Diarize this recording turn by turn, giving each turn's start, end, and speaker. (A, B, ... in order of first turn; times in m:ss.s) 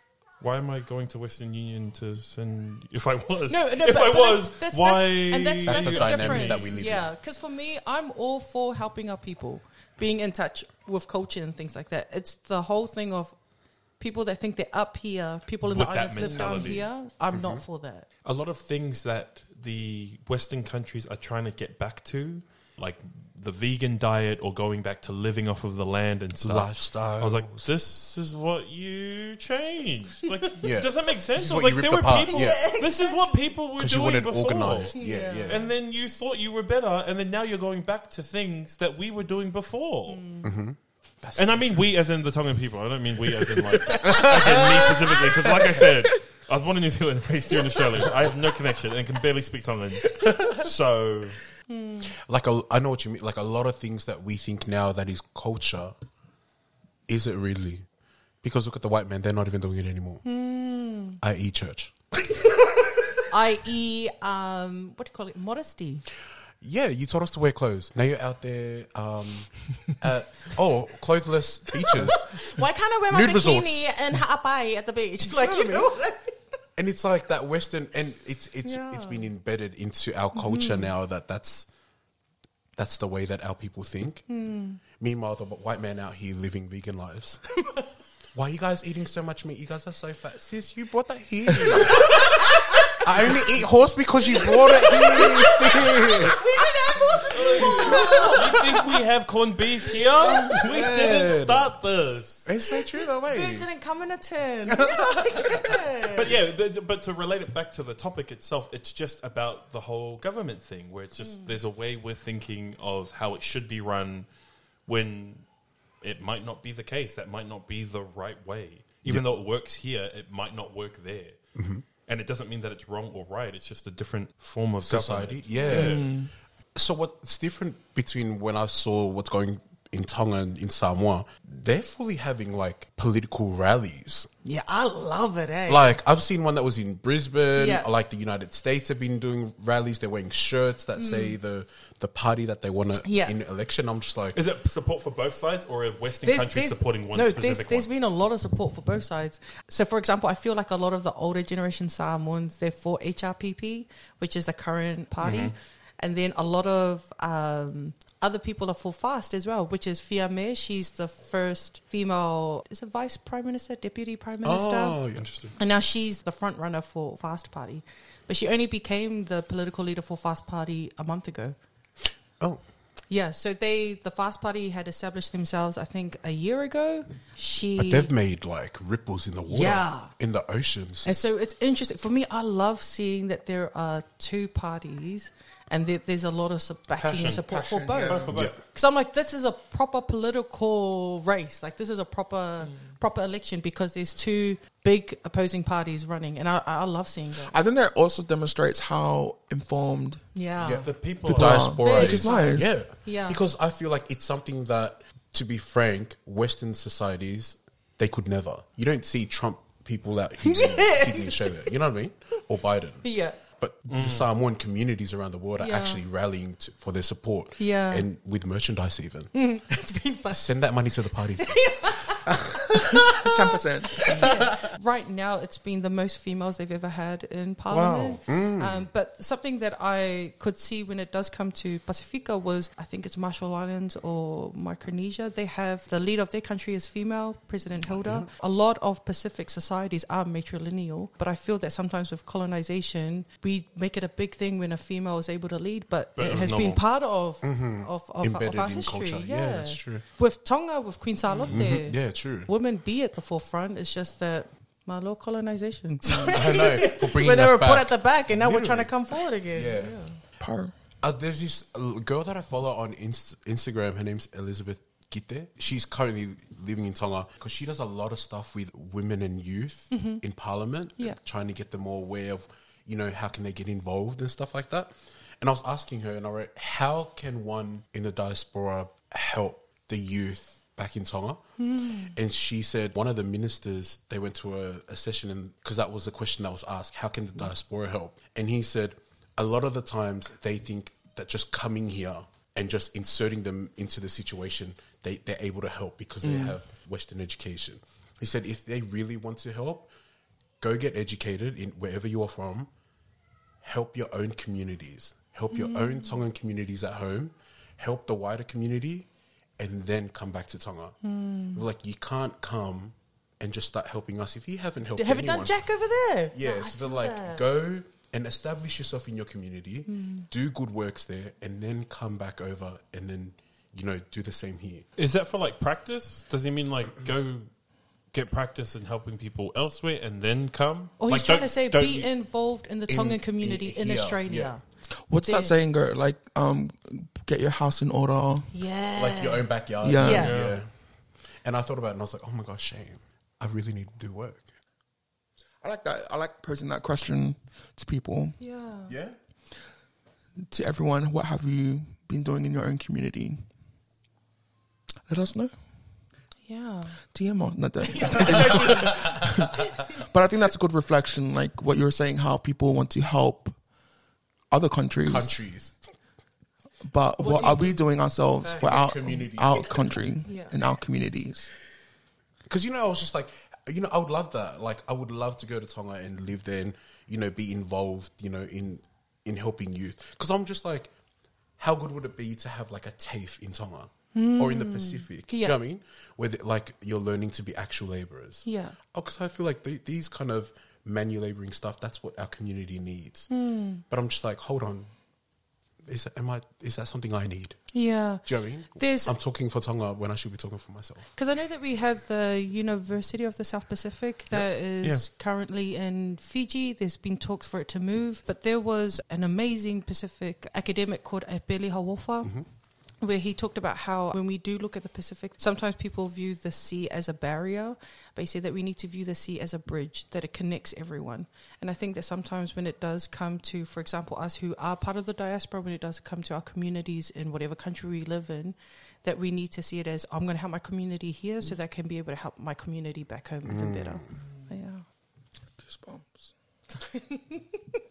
0:00.4-0:06.8 A
0:03.5-0:13.4 B
0:05.6-0:07.1 C
0:13.9-0:18.0 B
0:15.6-0:16.9 A
0:16.2-0:16.8 D
0:17.3-0:17.6 C
0:18.2-0:40.2 A
0:26.4-0:27.7 C
0:30.6-0:32.7 C
0:32.3-0:33.4 B
0:33.8-0:35.6 C
0:34.9-0:35.7 B
0:40.1-0:40.5 B
0:40.4-0:41.9 C
0:41.3-0:51.4 A
0:43.9-0:45.4 B
0:43.9-0:44.9 C
0:45.4-0:45.8 C
0:51.7-0:52.1 B
0:52.2-0:55.9 C
0:57.1-0:57.9 C
0:58.4-1:00.2 C
1:00.2-1:01.2 B
1:01.2-1:02.0 C
1:03.3-1:06.0 B
1:06.6-1:12.6 C
1:11.8-1:16.5 B
1:13.1-1:13.9 C
1:16.8-1:21.7 C
1:18.6-1:19.3 B
1:20.4-1:20.9 B
1:22.8-1:24.4 C
1:24.3-1:24.8 B
1:24.9-1:27.7 C
1:28.3-1:36.6 C
1:34.4-1:39.0 B
1:37.1-1:38.3 C
1:37.3-1:42.5 A
1:40.2-1:41.7 C
1:42.4-1:43.7 C
1:43.3-1:46.3 B
1:44.7-1:46.2 C
1:46.1-1:54.3 A
1:51.2-1:51.6 B
1:54.8-1:55.5 A
1:56.0-2:06.0 A
2:01.5-2:01.8 C
2:04.8-2:14.3 C
2:05.5-2:06.0 B
2:05.7-2:06.3 D
2:14.4-2:16.0 B
2:15.7-2:24.4 C
2:17.5-2:17.9 B
2:21.0-2:21.4 B
2:23.0-2:23.3 B
2:24.3-2:27.9 A
2:26.2-2:45.0 B
2:35.2-2:35.5 A
2:44.4-2:45.3 C
2:45.1-2:45.6 A
2:45.6-2:51.6 B
2:52.4-2:52.7 C
2:53.1-2:58.1 B
2:57.8-3:01.3 C
2:59.5-3:00.1 B
3:01.0-3:17.5 B
3:07.0-3:07.4 A
3:07.2-3:08.3 D
3:08.0-3:08.6 A
3:17.4-3:20.2 D
3:20.3-3:20.9 B
3:20.6-3:39.5 C
3:20.8-3:22.0 A
3:21.2-3:22.8 D
3:21.8-3:23.4 B
3:30.4-3:31.8 B
3:33.0-3:33.4 B
3:33.9-3:34.3 A
3:35.6-3:36.0 B
3:37.6-3:38.0 B
3:39.3-3:40.5 B
3:40.3-3:42.9 C
3:41.4-3:42.2 B
3:42.9-3:43.3 B
3:43.1-3:44.4 D
3:44.1-4:20.2 B
3:47.7-3:48.2 A
3:48.3-3:48.9 C
3:57.9-3:58.3 C
4:06.2-4:06.8 A
4:07.4-4:10.0 C
4:11.5-4:12.5 C
4:16.3-4:20.2 C
4:20.4-4:20.7 D
4:21.0-4:41.5 C
4:29.9-4:30.2 B
4:41.6-4:42.1 B
4:42.0-4:59.9 C
4:56.2-4:56.6 D
5:00.6-5:02.7 C
5:03.6-5:15.8 C
5:05.5-5:06.2 B
5:11.0-5:11.6 B
5:15.0-5:17.4 B
5:16.3-5:24.9 C
5:19.9-5:20.3 B
5:25.0-5:32.1 A
5:31.0-5:35.5 B
5:32.9-5:34.5 C
5:35.1-5:38.5 D
5:38.5-5:40.4 B
5:39.0-5:44.5 C
5:39.8-5:40.3 D
5:40.1-5:40.6 A
5:45.6-5:48.4 D
5:48.4-5:48.9 B
5:48.9-5:49.2 C
5:50.4-5:53.4 D
5:55.1-5:55.5 D
5:56.5-5:57.0 B
5:57.0-6:03.6 D
5:57.8-6:00.0 B
5:58.4-5:59.4 C
6:04.5-6:05.4 D
6:05.0-6:05.8 C
6:06.8-6:11.5 D
6:07.2-6:08.9 B
6:08.5-6:10.0 C
6:10.2-6:10.6 B
6:12.5-6:20.9 C
6:21.6-6:35.0 C
6:24.1-6:25.6 B
6:28.4-6:28.8 B
6:33.3-6:33.8 B
6:35.8-6:41.1 C
6:37.7-6:39.1 B
6:41.1-6:52.4 B
6:53.0-7:14.8 B
7:13.4-7:14.2 C
7:15.6-7:16.3 D
7:16.7-7:17.8 B